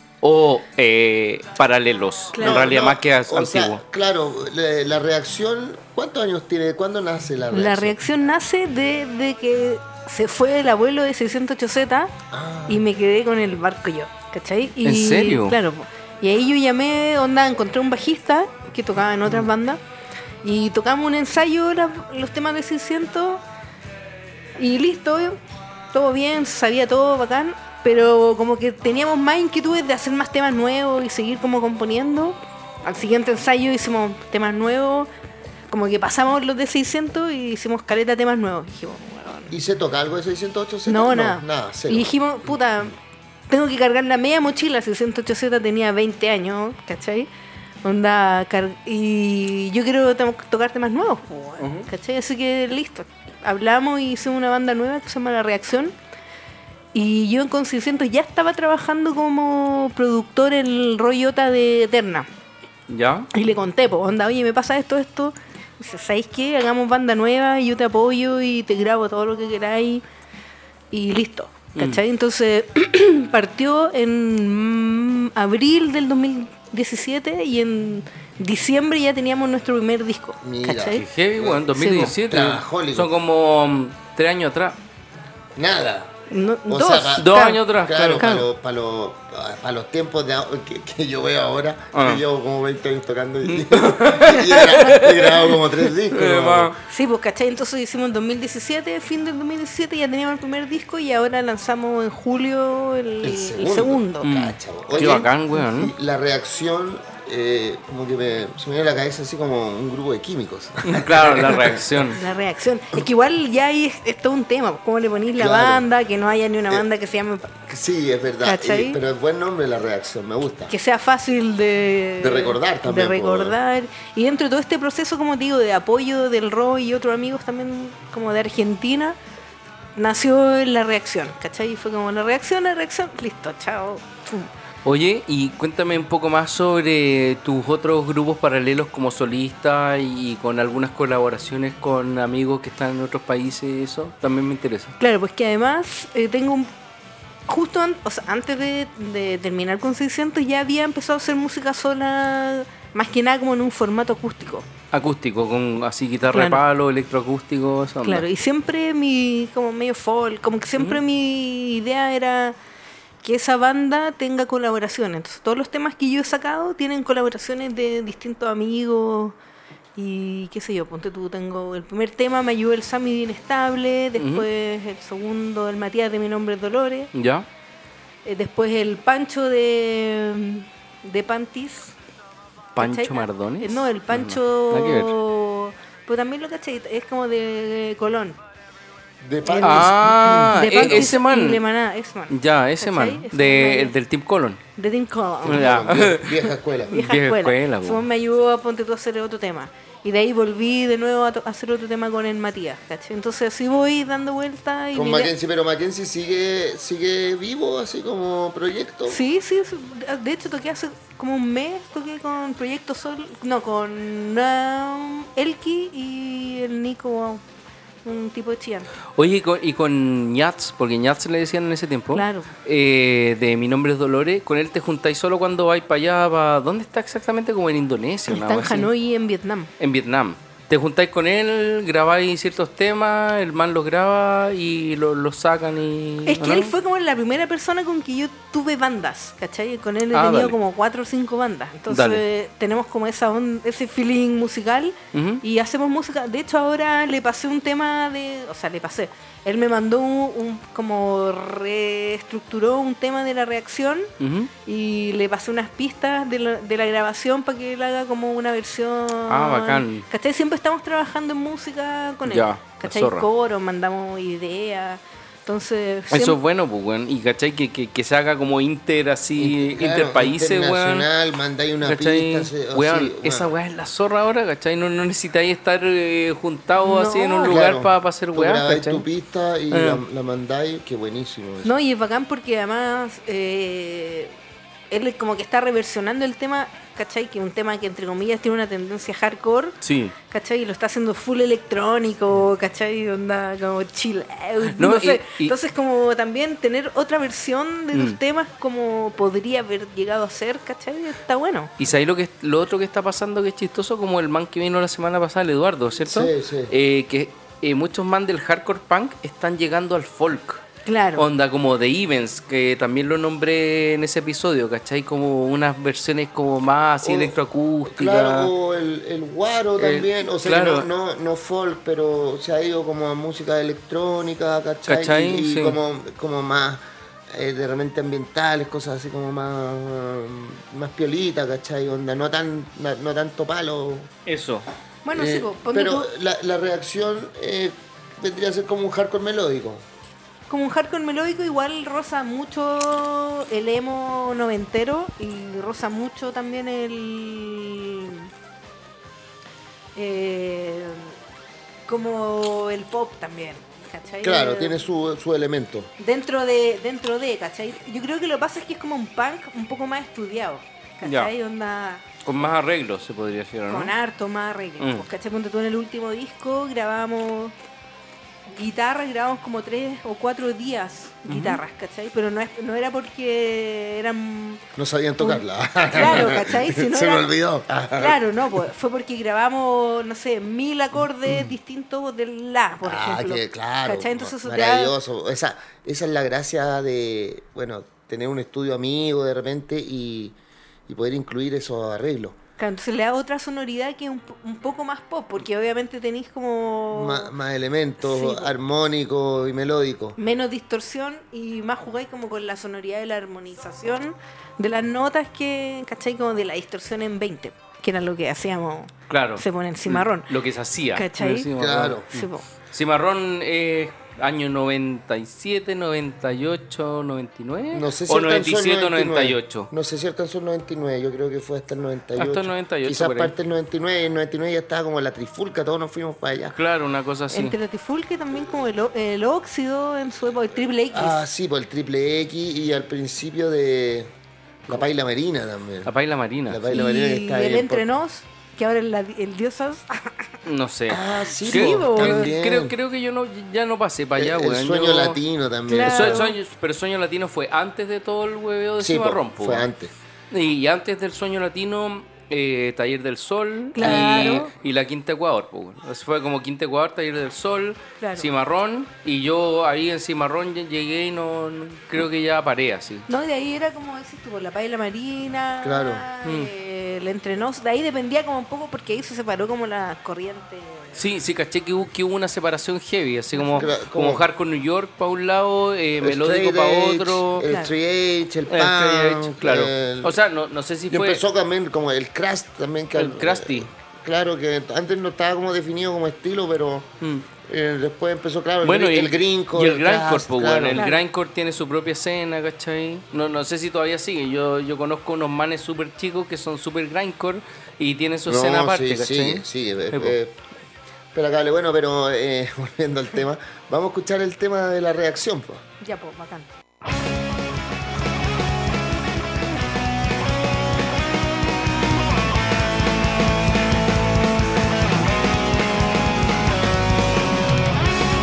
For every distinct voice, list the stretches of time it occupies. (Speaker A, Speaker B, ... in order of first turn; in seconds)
Speaker A: 0.2-3.8, 14.8-15.6, 62.9-63.3, 71.8-72.0, 80.9-84.8, 87.2-88.5, 91.9-92.2, 93.4-96.7, 104.2-105.9, 110.8-112.2, 134.8-144.9, 154.9-158.3, 174.2-174.5, 177.1-177.5, 182.8-185.1, 189.6-191.6, 192.3-194.6, 195.4-198.1, 219.2-228.9, 229.8-236.7, 240.1-240.6, 241.9-242.2, 245.1-245.4, 254.2-254.5, 259.3-260.1, 262.2-263.3, 266.1-271.1, 271.8-279.1, 279.7-280.0, 289.8-290.1, 294.7-295.5, 297.9-298.2, 301.8-310.6, 311.2-318.5, 319.8-320.9, 324.9-325.8, 334.2-334.6, 361.0-361.3, 362.2-363.9, 364.8-365.1, 371.3-371.6, 409.1-419.7, 422.1-423.3, 426.5-427.6, 435.8-436.6, 440.4-445.2, 445.8-449.7, 450.3-463.1, 466.2-466.5, 470.9-477.5, 478.5-481.2, 482.9-483.7, 488.6-500.2
Speaker B: 2.3-2.7, 7.5-12.2, 12.7-19.8, 20.4-23.4, 24.6-25.4, 25.9-35.1, 35.7-39.5, 40.9-43.0, 43.5-47.3, 47.8-55.9, 56.9-62.3, 63.3-70.0, 70.9-81.0, 81.7-82.2, 86.3-87.6, 96.8-104.3, 112.1-117.5, 118.4-119.0, 120.7-129.2, 129.9-134.5, 145.0-146.7, 147.5-154.6, 156.3-156.6, 158.0-162.6, 163.2-169.3, 169.9-177.1, 178.2-181.9, 182.8-188.4, 189.4-193.9, 194.8-195.8, 196.9-205.3, 209.1-217.4, 218.0-218.9, 222.1-222.5, 228.3-229.7, 236.2-254.1, 254.6-266.4, 276.8-277.6, 281.6-284.3, 284.9-301.7, 310.9-311.3, 335.0-336.1, 340.5-348.3, 349.9-351.1, 351.9-354.8, 356.0-362.1, 363.7-367.5, 368.5-374.6, 375.2-377.3, 377.9-384.9, 392.6-397.3, 398.0-398.5, 400.2-410.3, 410.9-411.5, 412.1-412.4, 427.3-431.2, 436.7-440.3, 441.4-442.4, 445.7-446.4, 453.7-454.5, 458.0-458.3, 463.1-471.0, 473.3-473.7, 477.4-477.7, 490.8-491.0, 505.8-506.5
Speaker C: 2.4-8.0, 12.3-12.8, 39.5-42.1, 80.4-83.1, 85.5-86.1, 86.7-96.7, 103.2-112.0, 115.4-115.8, 117.6-120.7, 122.2-123.5, 189.2-191.1, 195.4-196.9, 204.9-209.2, 269.4-273.5, 277.5-281.7, 306.0-306.7, 317.0-334.1, 335.1-339.8, 354.2-355.9, 374.8-378.6, 382.8-390.4, 390.9-392.4, 396.9-400.2, 411.6-412.1, 417.7-426.6, 430.9-434.1, 434.7-435.9, 436.5-437.8, 440.9-442.7, 444.2-446.2, 448.8-449.9, 453.8-454.4, 465.6-466.1, 473.6-474.3, 476.0-480.2, 480.9-486.9, 487.5-490.8, 498.3-500.4, 501.1-505.6